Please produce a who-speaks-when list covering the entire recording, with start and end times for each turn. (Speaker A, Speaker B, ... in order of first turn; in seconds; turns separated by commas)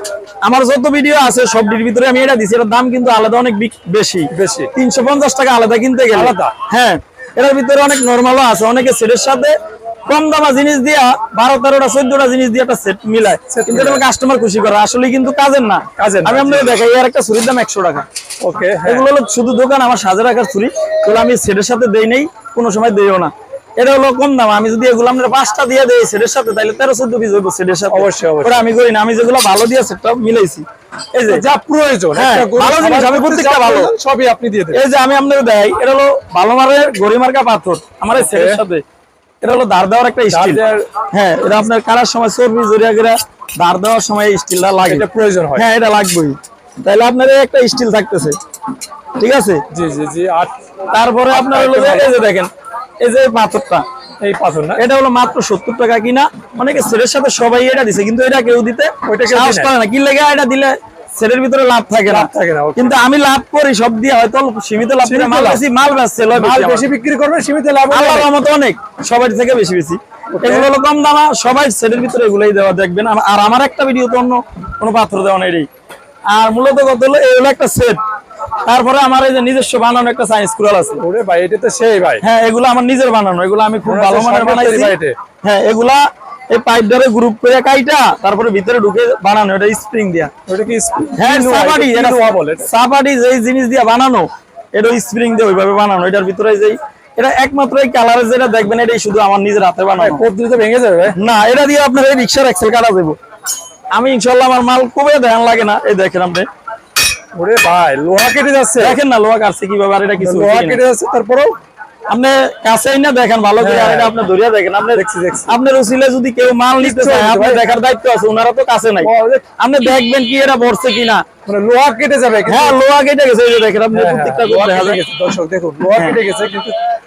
Speaker A: 0.4-18.1, Speaker B: 4.3-4.7, Speaker B: 6.1-6.5, Speaker B: 13.5-14.0, Speaker B: 16.0-16.8, Speaker B: 18.4-19.1, Speaker A: 18.8-31.4, Speaker B: 27.9-28.6, Speaker B: 31.3-34.8, Speaker A: 32.1-33.9, Speaker A: 34.7-38.8, Speaker B: 38.1-38.6, Speaker A: 39.4-48.4, Speaker B: 40.3-40.8, Speaker B: 44.9-45.6, Speaker A: 49.2-49.6, Speaker B: 49.7-50.5, Speaker A: 50.9-52.5, Speaker B: 51.3-52.1, Speaker A: 53.0-53.8, Speaker B: 54.2-54.8, Speaker A: 54.8-66.9, Speaker B: 59.0-59.7, Speaker B: 62.1-62.9, Speaker B: 65.0-65.6, Speaker B: 66.3-68.3, Speaker A: 67.9-75.7, Speaker B: 70.3-70.7, Speaker A: 76.3-78.0, Speaker A: 78.6-81.0, Speaker B: 81.0-82.2, Speaker A: 82.2-90.3, Speaker B: 83.8-85.2, Speaker B: 90.5-92.7, Speaker A: 91.2-100.2, Speaker B: 100.0-101.2, Speaker A: 101.2-103.2, Speaker A: 103.9-106.5, Speaker B: 107.3-109.0, Speaker A: 108.8-110.8, Speaker B: 110.2-111.5, Speaker A: 112.1-121.2, Speaker B: 113.6-114.1, Speaker B: 114.9-115.5, Speaker B: 116.8-117.6, Speaker B: 119.0-119.4, Speaker B: 121.5-122.8, Speaker A: 122.5-125.0, Speaker B: 123.9-126.8, Speaker A: 125.9-126.2